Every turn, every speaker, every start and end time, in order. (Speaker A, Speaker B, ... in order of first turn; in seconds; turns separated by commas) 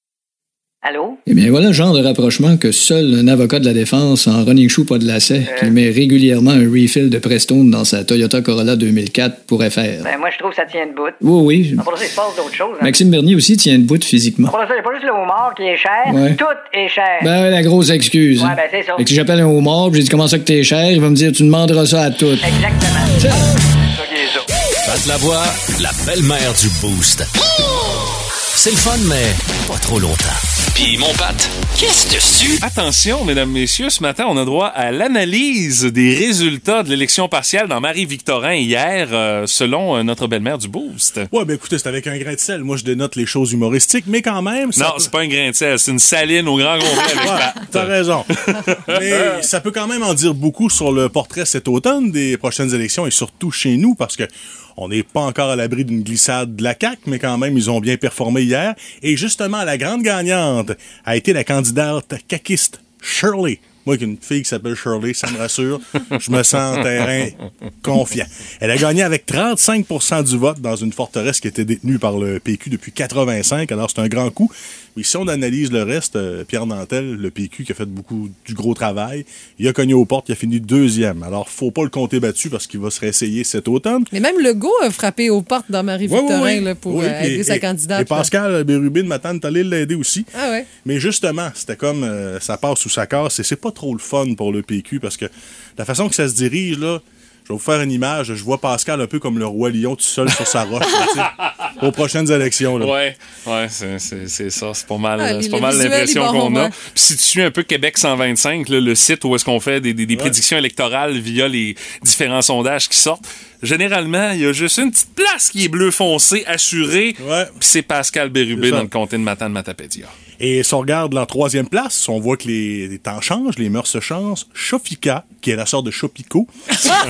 Speaker A: 0.8-1.2, Speaker B: 1.3-10.1, Speaker A: 5.5-5.7, Speaker A: 10.0-11.2, Speaker B: 11.2-11.8, Speaker A: 11.8-13.0, Speaker B: 12.8-14.5, Speaker A: 14.5-17.3, Speaker B: 16.1-16.4, Speaker B: 17.2-22.4, Speaker A: 18.4-19.1, Speaker A: 22.4-23.5, Speaker B: 23.2-23.5, Speaker A: 24.0-24.4, Speaker C: 24.8-27.9, Speaker C: 28.5-32.6, Speaker D: 32.6-41.3, Speaker E: 41.3-45.1, Speaker D: 44.7-49.4, Speaker E: 47.2-84.1, Speaker F: 84.1-88.3, Speaker E: 86.0-90.3, Speaker F: 90.3-90.7, Speaker E: 90.8-102.9, Speaker D: 102.8-120.1, Speaker F: 105.2-106.7, Speaker E: 110.1-110.4, Speaker E: 117.2-117.5, Speaker E: 118.5-118.9, Speaker E: 120.4-126.5